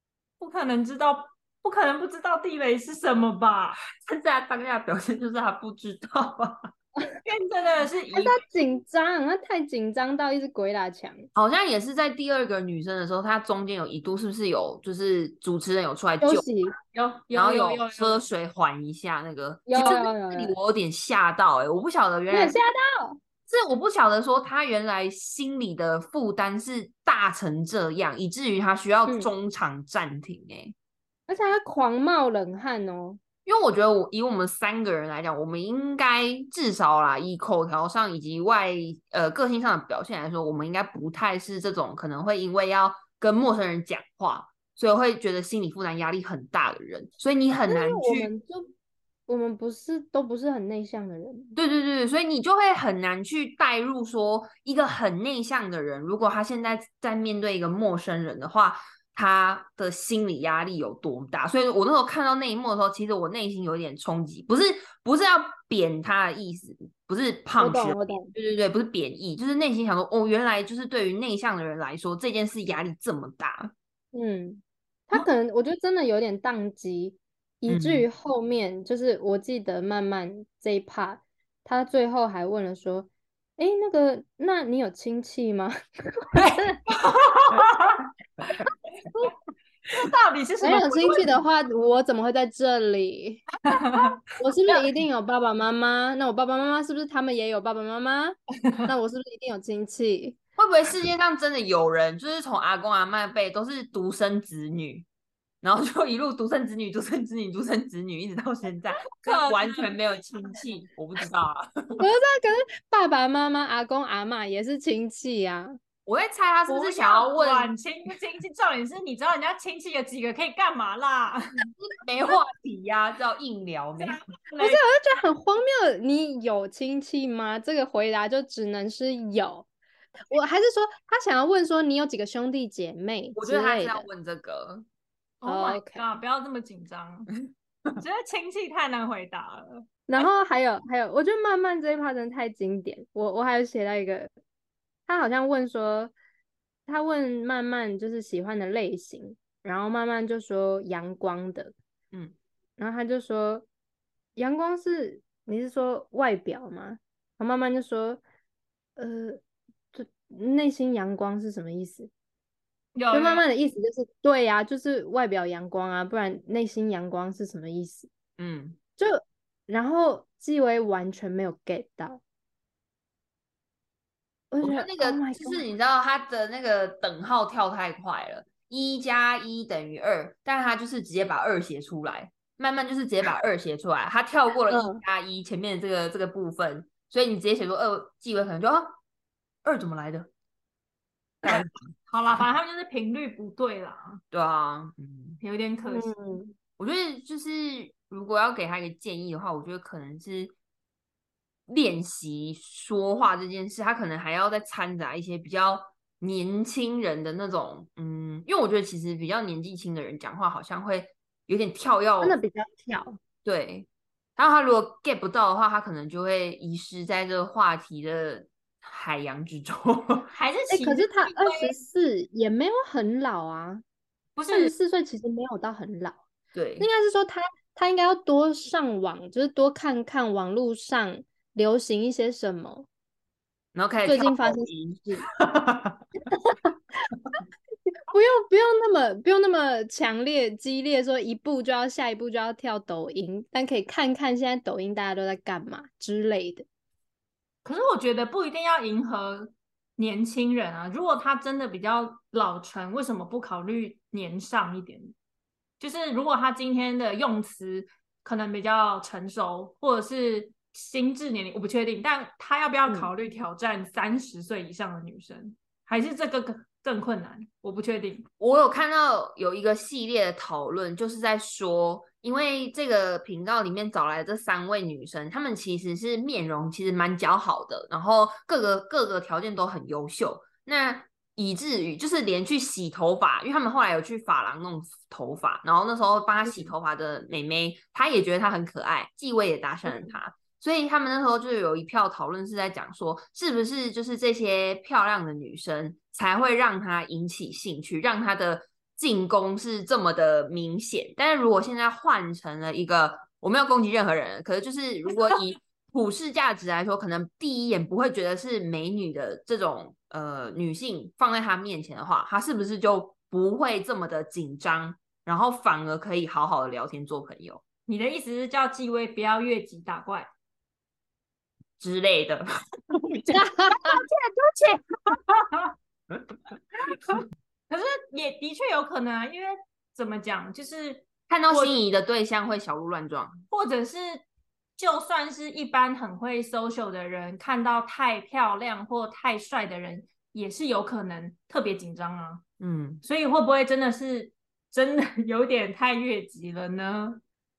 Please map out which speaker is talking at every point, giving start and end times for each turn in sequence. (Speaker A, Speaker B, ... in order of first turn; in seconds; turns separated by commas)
Speaker A: 0.4-3.8, Speaker B: 4.0-6.7, Speaker A: 7.2-8.4, Speaker C: 8.1-11.3, Speaker B: 11.3-16.4, Speaker C: 16.2-16.7, Speaker A: 16.9-18.2, Speaker B: 17.3-22.6, Speaker C: 19.7-20.6, Speaker C: 22.3-23.2, Speaker B: 23.5-30.7, Speaker C: 29.1-29.3, Speaker C: 31.3-33.2, Speaker B: 33.5-48.3, Speaker C: 47.7-48.7, Speaker C: 49.3-51.5, Speaker B: 51.5-73.7, Speaker C: 67.6-68.3, Speaker C: 74.1-86.8, Speaker B: 77.7-78.0, Speaker A: 86.4-88.0, Speaker A: 89.9-91.4, Speaker C: 90.6-93.6, Speaker A: 93.7-94.2, Speaker C: 94.3-98.3, Speaker C: 98.9-100.4, Speaker B: 100.6-105.0, Speaker B: 105.6-112.0, Speaker A: 109.1-109.9, Speaker C: 112.0-115.7, Speaker B: 116.0-117.7, Speaker A: 116.7-121.6, Speaker B: 121.8-124.2, Speaker A: 124.0-124.8, Speaker C: 124.6-129.7, Speaker C: 130.3-134.1, Speaker B: 133.3-134.8, Speaker A: 135.4-137.3, Speaker C: 135.4-136.0, Speaker A: 138.0-140.2, Speaker C: 140.1-144.3, Speaker C: 145.1-146.1, Speaker C: 146.9-151.7, Speaker C: 152.8-153.7, Speaker C: 154.3-158.2, Speaker C: 159.0-159.4, Speaker C: 159.9-162.1, Speaker A: 162.9-163.4, Speaker C: 163.1-168.1, Speaker B: 168.4-168.8, Speaker C: 169.0-172.2, Speaker C: 174.5-175.6, Speaker B: 174.6-189.0, Speaker C: 184.7-185.0, Speaker B: 189.6-190.3, Speaker B: 191.4-191.7, Speaker A: 192.1-194.2, Speaker B: 194.3-195.4, Speaker A: 195.4-196.1, Speaker C: 195.8-196.6, Speaker B: 196.8-200.5, Speaker B: 201.7-212.4, Speaker C: 212.2-213.2, Speaker B: 213.4-220.3, Speaker A: 220.3-221.8, Speaker C: 220.7-223.8, Speaker A: 224.3-224.7, Speaker C: 224.5-226.2, Speaker B: 226.5-226.9, Speaker C: 226.8-232.9, Speaker B: 233.7-236.0, Speaker C: 234.1-235.2, Speaker C: 236.3-236.7, Speaker C: 238.1-246.6, Speaker A: 247.6-255.1, Speaker A: 255.8-268.2, Speaker B: 268.4-317.6, Speaker C: 289.9-290.1, Speaker A: 317.9-320.3, Speaker B: 321.8-325.2, Speaker C: 323.3-324.0, Speaker A: 325.3-325.6, Speaker A: 327.1-331.7, Speaker B: 331.3-333.4, Speaker A: 333.5-334.2, Speaker A: 334.8-342.4, Speaker B: 342.6-343.0, Speaker A: 343.0-347.2